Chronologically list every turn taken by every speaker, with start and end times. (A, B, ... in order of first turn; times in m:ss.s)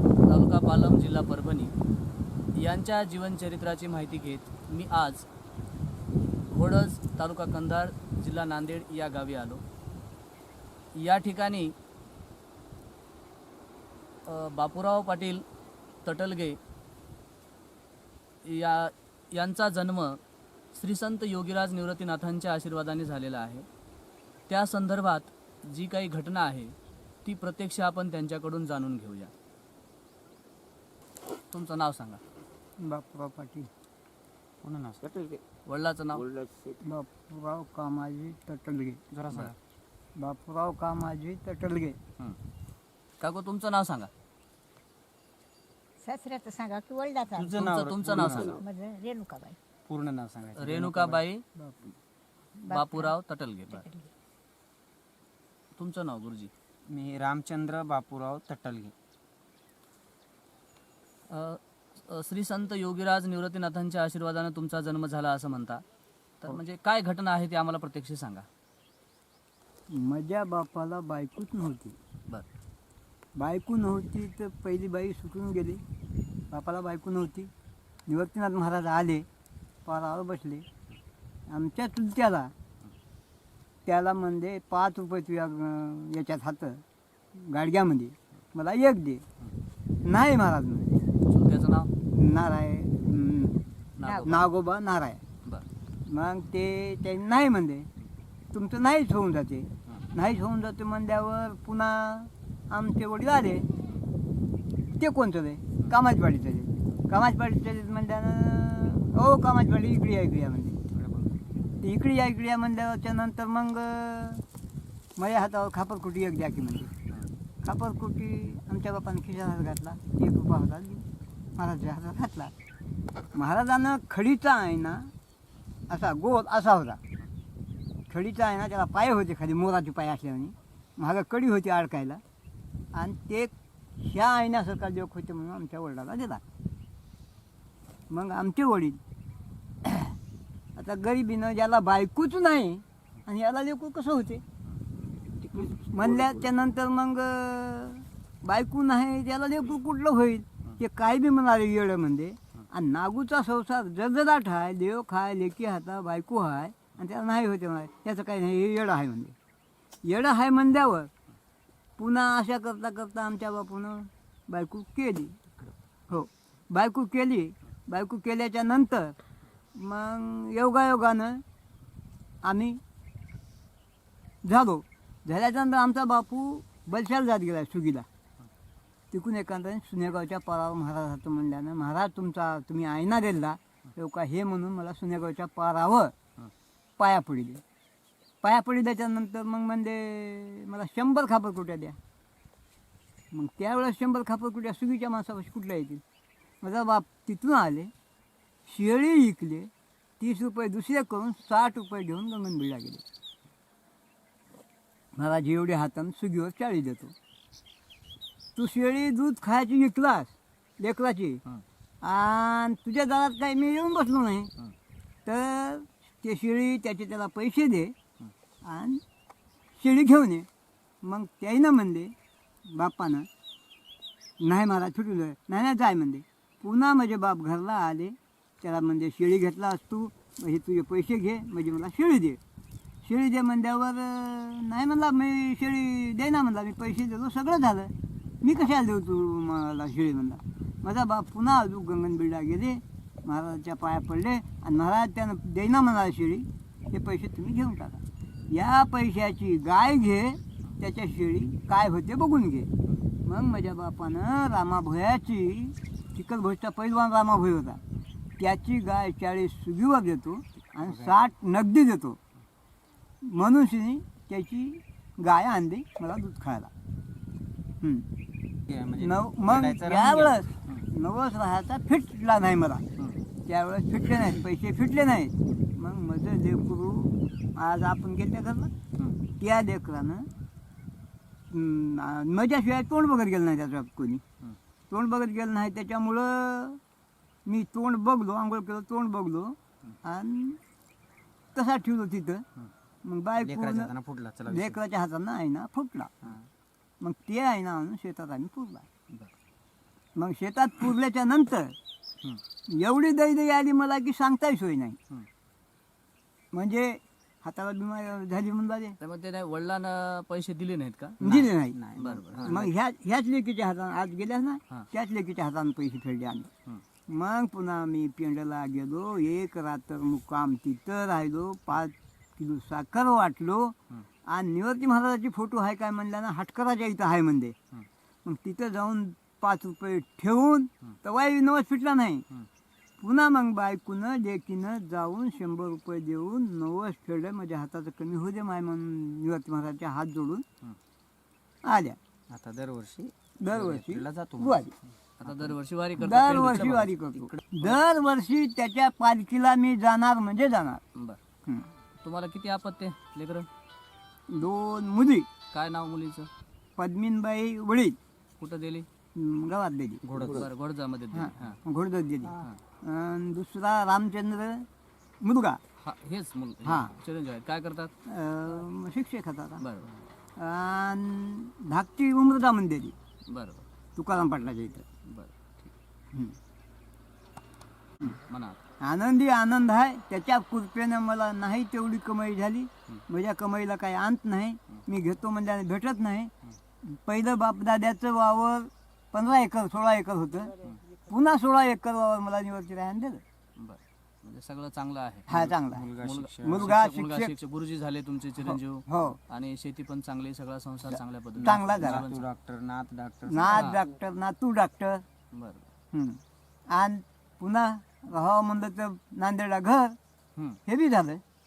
0:00.2-0:01.7 A
0:02.6-0:05.2 A
0:06.5-0:09.6 A
0:11.0-0:11.7 A
0:14.2-0:15.4 A
0:16.0-0:16.6 A
0:18.4-0:20.2 A
0:20.7-0:23.6 A
0:24.5-0:29.3 A
0:31.5-0:32.2 A
0:32.8-0:33.7 B
0:34.6-0:35.4 C
0:35.6-0:36.2 A
0:36.8-0:39.0 B
0:39.1-0:39.5 C
0:40.2-0:42.0 B
0:43.2-0:44.1 A
0:46.1-0:47.5 D
0:47.3-0:48.6 C
0:47.6-0:48.6 A
0:48.6-0:49.6 D
0:49.8-0:51.2 C
0:50.6-0:51.4 A
0:52.6-0:53.0 D
0:52.7-0:53.8 A
0:55.8-0:56.5 A
0:56.9-0:58.9 C
1:01.3-1:05.8 A
1:06.4-1:08.5 A
1:09.9-1:12.0 B
1:13.4-1:15.8 B
1:16.5-1:17.5 B
1:18.1-1:19.2 B
1:19.8-1:20.6 B
1:21.5-1:22.5 B
1:23.8-1:26.8 B
1:27.4-1:29.2 B
1:30.0-1:31.0 B
1:31.2-1:31.9 A
1:32.1-1:35.2 B
1:34.0-1:34.5 A
1:36.0-1:37.9 B
1:38.5-1:43.7 B
1:44.9-1:50.8 B
1:51.8-1:54.4 B
1:55.2-1:56.9 B
1:57.6-2:01.0 B
2:01.6-2:02.5 B
2:03.3-2:05.1 B
2:05.9-2:07.0 B
2:08.1-2:12.2 B
2:12.9-2:16.4 B
2:18.1-2:19.0 B
2:19.8-2:20.1 B
2:20.8-2:24.4 B
2:25.5-2:39.3 B
2:40.0-2:41.1 B
2:42.0-2:45.4 B
2:46.1-2:49.2 B
2:49.7-2:51.4 B
2:52.4-2:52.8 B
2:54.4-2:58.0 B
2:59.1-3:06.1 B
3:07.0-3:07.6 B
3:08.4-3:12.0 B
3:13.3-3:16.0 B
3:16.6-3:17.9 B
3:18.6-3:23.0 B
3:25.1-3:27.1 B
3:28.6-3:31.4 B
3:32.0-3:34.5 B
3:35.2-3:37.9 B
3:38.6-3:39.0 B
3:39.8-3:40.5 B
3:41.0-3:42.1 B
3:42.7-3:43.3 B
3:44.4-3:52.4 B
3:53.0-4:12.7 B
4:13.2-4:17.8 B
4:18.4-4:22.2 B
4:20.8-4:21.2 C
4:23.2-4:26.7 B
4:27.8-4:28.0 B
4:28.7-4:30.5 C
4:29.0-4:32.8 B
4:33.4-4:38.7 B
4:39.4-4:40.3 B
4:41.5-4:44.2 B
4:44.9-4:46.8 B
4:47.4-4:50.6 B
4:51.5-4:52.4 B
4:53.0-4:53.9 B
4:53.4-4:54.8 C
4:54.5-4:56.1 B
4:57.0-4:58.8 B
5:00.2-5:01.7 B
5:02.7-5:05.0 B
5:06.5-5:09.0 B
5:09.0-5:12.6 A
5:11.2-5:11.8 B
5:11.2-5:12.7 C
5:12.4-5:16.5 B
5:17.1-5:23.7 B
5:24.3-5:27.6 B
5:28.2-5:32.2 B
5:33.0-5:40.4 B
5:41.6-5:42.0 B
5:42.3-5:44.7 C
5:43.4-5:44.7 B
5:45.2-5:47.0 A
5:45.2-5:45.5 C
5:46.0-5:50.8 B
5:52.0-5:53.5 A
5:54.3-5:55.3 B
5:55.5-5:56.3 A
5:56.8-5:58.0 B
5:58.4-5:58.9 A
5:59.1-6:00.1 B
6:00.0-6:00.5 C
6:00.1-6:01.6 A
6:01.1-6:04.7 B
6:02.3-6:02.6 A
6:05.2-6:05.6 B
6:05.8-6:07.9 A
6:06.6-6:06.9 B
6:08.0-6:09.6 B
6:09.6-6:09.9 A
6:10.4-6:13.0 B
6:13.3-6:13.6 A
6:14.0-6:14.8 B
6:15.0-6:15.7 A
6:18.0-6:18.6 A
6:18.8-6:26.3 B
6:26.8-6:30.5 B
6:31.0-6:33.2 B
6:33.6-6:35.3 A
6:35.3-6:35.9 B
6:35.3-6:36.7 C
6:36.0-6:42.2 A
6:36.4-6:37.3 B
6:38.4-6:39.2 B
6:41.4-6:43.7 C
6:41.4-6:42.0 B
6:43.2-6:45.0 B
6:43.5-6:43.8 A
6:45.3-6:45.7 A
6:45.9-6:46.2 B
6:46.7-6:50.0 B
6:50.6-6:51.2 B